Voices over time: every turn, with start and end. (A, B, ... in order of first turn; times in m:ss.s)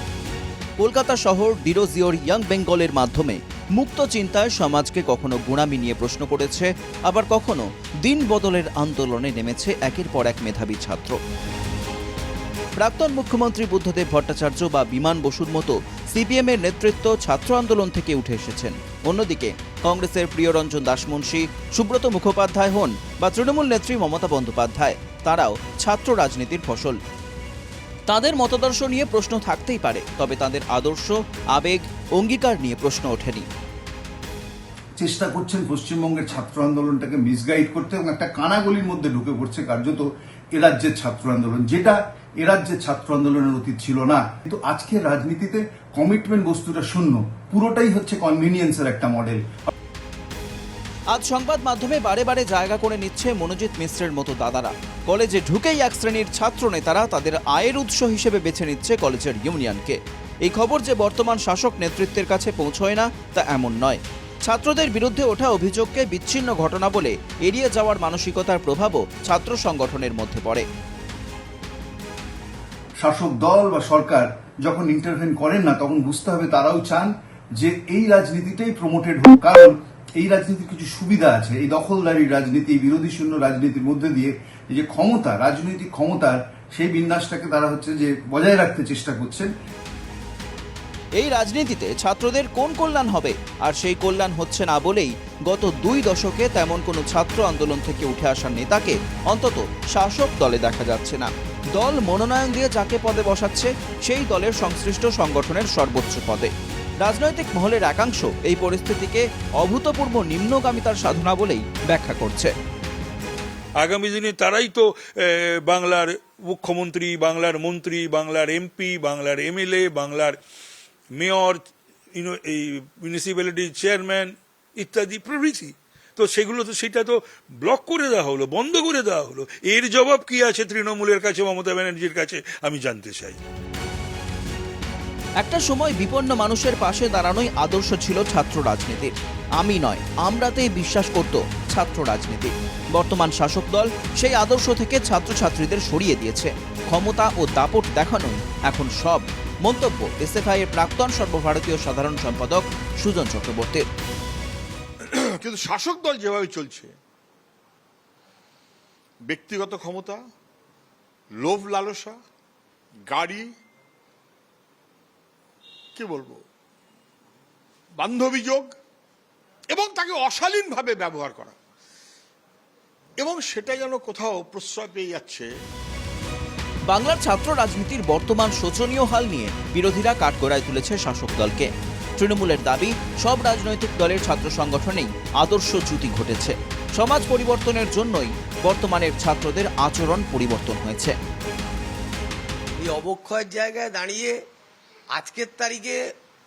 0:00.8-0:11.2 A
0:12.8-0:27.0 A
0:28.1-0:33.5 A
0:35.0-0:49.4 B
0:51.1-1:10.7 A
1:13.0-1:29.5 B
1:31.2-1:46.5 A
1:47.0-1:52.5 A
1:53.8-2:00.4 C
2:01.2-2:01.6 C
2:02.1-2:13.4 C
2:15.4-2:33.9 A
2:35.0-2:36.9 D
2:39.3-2:40.2 D
2:41.4-2:42.2 D
2:43.1-2:43.5 D
2:46.0-2:46.4 D
2:48.0-2:48.7 D
2:49.7-2:51.6 D
2:53.2-2:55.5 D
2:56.9-3:11.2 A
3:12.8-3:14.4 E
3:15.1-3:16.0 E